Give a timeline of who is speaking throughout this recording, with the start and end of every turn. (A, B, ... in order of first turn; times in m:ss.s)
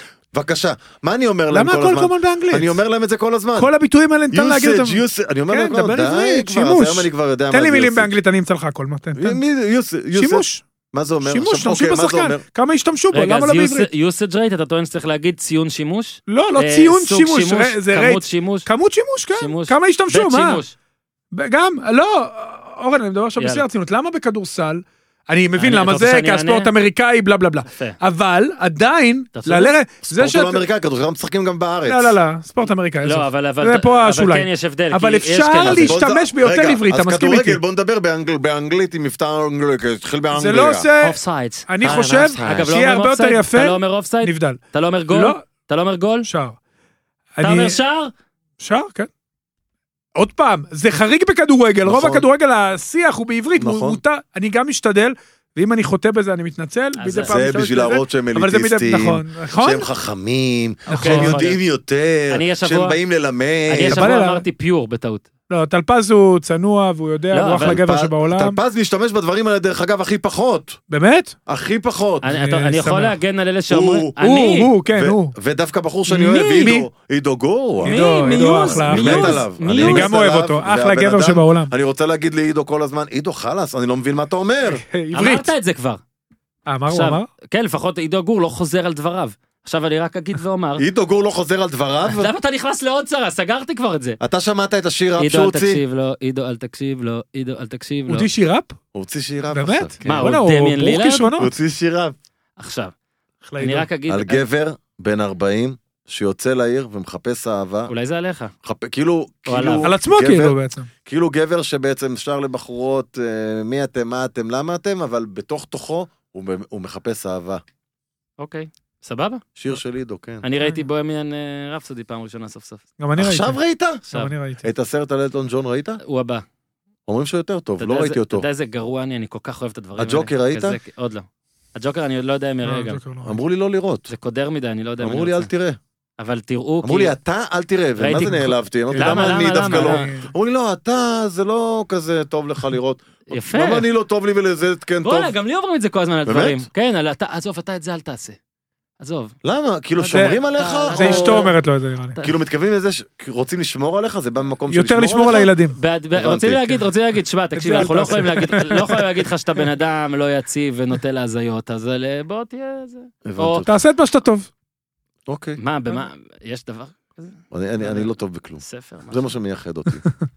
0:00.3-0:03.7 A
0:01.5-0:02.7 B
0:03.6-0:09.4 B
0:04.3-0:08.1 A
0:09.1-0:12.4 A
0:10.1-0:10.6 B
0:11.2-0:13.9 B
0:13.1-0:18.7 C
0:16.3-0:20.6 B
0:19.3-0:20.7 C
0:21.3-0:30.6 B
0:23.4-0:23.6 C
0:25.6-0:26.7 C
0:27.7-0:28.0 C
0:29.3-0:29.7 C
0:30.0-0:32.2 A
0:31.8-0:37.6 B
0:33.0-0:36.0 C
0:35.6-0:40.9 A
0:40.3-0:44.6 B
0:41.0-0:46.3 C
0:45.1-0:45.4 B
0:46.2-0:46.6 B
0:47.4-0:47.8 B
0:47.4-0:48.1 C
0:48.6-0:49.1 B
0:50.2-0:59.9 B
0:51.8-0:52.2 A
0:53.6-0:54.0 A
0:57.0-0:57.4 C
0:57.2-1:04.0 A
1:00.9-1:01.4 B
1:00.9-1:01.6 C
1:02.3-1:03.0 C
1:03.7-1:05.2 C
1:03.9-1:04.4 B
1:05.5-1:08.6 B
1:07.3-1:07.8 C
1:07.6-1:10.8 A
1:10.9-1:11.4 B
1:11.4-1:12.2 A
1:12.2-1:14.7 C
1:12.2-1:13.2 B
1:13.7-1:14.2 A
1:14.2-1:15.3 B
1:14.9-1:24.8 A
1:16.1-1:16.9 B
1:16.3-1:16.7 C
1:17.8-1:20.2 C
1:17.8-1:21.7 B
1:24.7-1:25.5 B
1:25.1-1:26.0 C
1:26.7-1:27.3 B
1:26.9-1:30.8 C
1:30.8-1:32.3 A
1:32.0-1:34.2 C
1:34.2-1:35.8 A
1:35.2-1:38.3 C
1:38.1-1:38.8 B
1:38.9-1:40.2 A
1:39.5-1:41.5 B
1:40.0-1:41.4 C
1:41.4-1:42.1 A
1:42.6-1:42.9 C
1:43.4-1:43.9 B
1:43.6-1:44.4 C
1:44.1-1:47.9 A
1:47.9-1:48.5 C
1:48.6-1:57.6 A
1:49.5-1:49.9 C
1:49.8-1:50.9 B
1:58.4-1:59.4 C
1:59.6-2:00.4 A
2:00.4-2:02.8 C
2:03.0-2:03.6 B
2:03.2-2:04.1 A
2:04.1-2:04.6 B
2:04.6-2:06.0 A
2:06.0-2:06.4 C
2:07.1-2:08.4 A
2:07.8-2:13.0 C
2:10.0-2:10.8 A
2:12.6-2:13.3 B
2:13.2-2:14.1 A
2:14.1-2:15.5 C
2:15.0-2:15.8 A
2:16.2-2:17.1 C
2:16.8-2:25.3 A
2:18.0-2:20.1 C
2:18.9-2:20.3 B
2:23.3-2:23.9 C
2:25.0-2:28.4 C
2:26.2-2:26.7 A
2:29.0-2:29.3 C
2:29.4-2:31.5 A
2:30.0-2:31.6 C
2:30.1-2:30.4 B
2:30.9-2:32.2 B
2:32.2-2:35.5 A
2:34.7-2:35.8 B
2:35.7-2:43.6 C
2:36.2-2:36.8 A
2:37.5-2:39.1 B
2:43.2-2:43.7 A
2:43.6-2:44.5 B
2:45.3-2:45.6 A
2:45.6-2:48.0 C
2:47.5-2:50.1 A
2:48.6-2:49.3 C